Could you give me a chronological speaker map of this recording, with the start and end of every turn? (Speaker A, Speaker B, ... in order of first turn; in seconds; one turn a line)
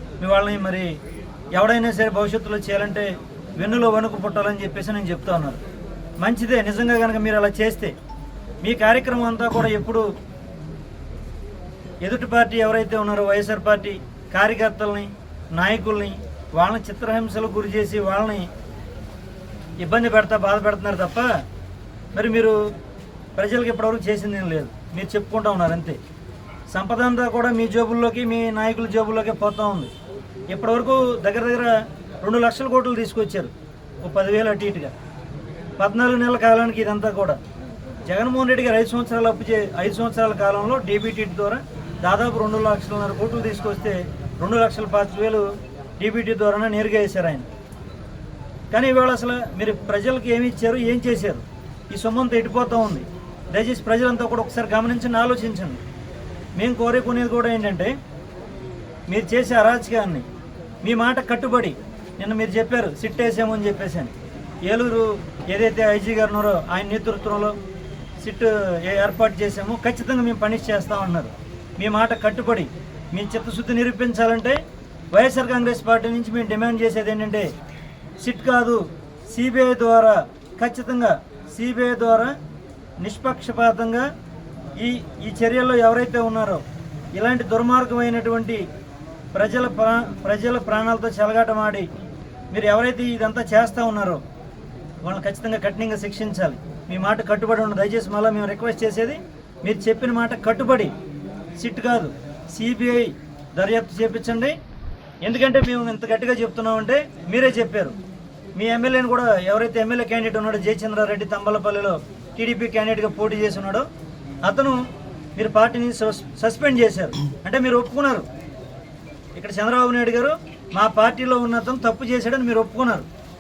Speaker A: 0.2-0.9
Speaker A: 1.6-3.1
Speaker A: 3.6-5.6
Speaker A: 6.2-7.9
Speaker A: 8.6-10.1
Speaker A: 12.0-18.5
Speaker A: 19.8-21.3
Speaker A: 22.1-22.6
Speaker A: 23.4-26.0
Speaker A: 26.7-29.9
Speaker A: 30.5-31.7
Speaker A: 32.2-33.5
Speaker A: 34.0-34.9
Speaker A: 35.8-37.4
Speaker A: 38.1-45.5
Speaker A: 46.0-47.5
Speaker A: 48.7-55.8
Speaker A: 56.6-57.9
Speaker A: 59.1-60.2
Speaker A: 60.8-64.1
Speaker A: 64.7-67.6
Speaker A: 68.2-74.6
Speaker A: 75.1-77.5
Speaker A: 78.2-82.3
Speaker A: 83.0-84.1
Speaker A: 84.8-86.6
Speaker A: 87.2-88.7
Speaker A: 89.3-91.9
Speaker A: 92.5-94.2
Speaker A: 95.0-100.9
Speaker A: 101.6-104.5
Speaker A: 105.2-108.0
Speaker A: 108.6-113.9
Speaker A: 114.5-114.8
Speaker A: 115.4-118.2
Speaker A: 119.4-123.1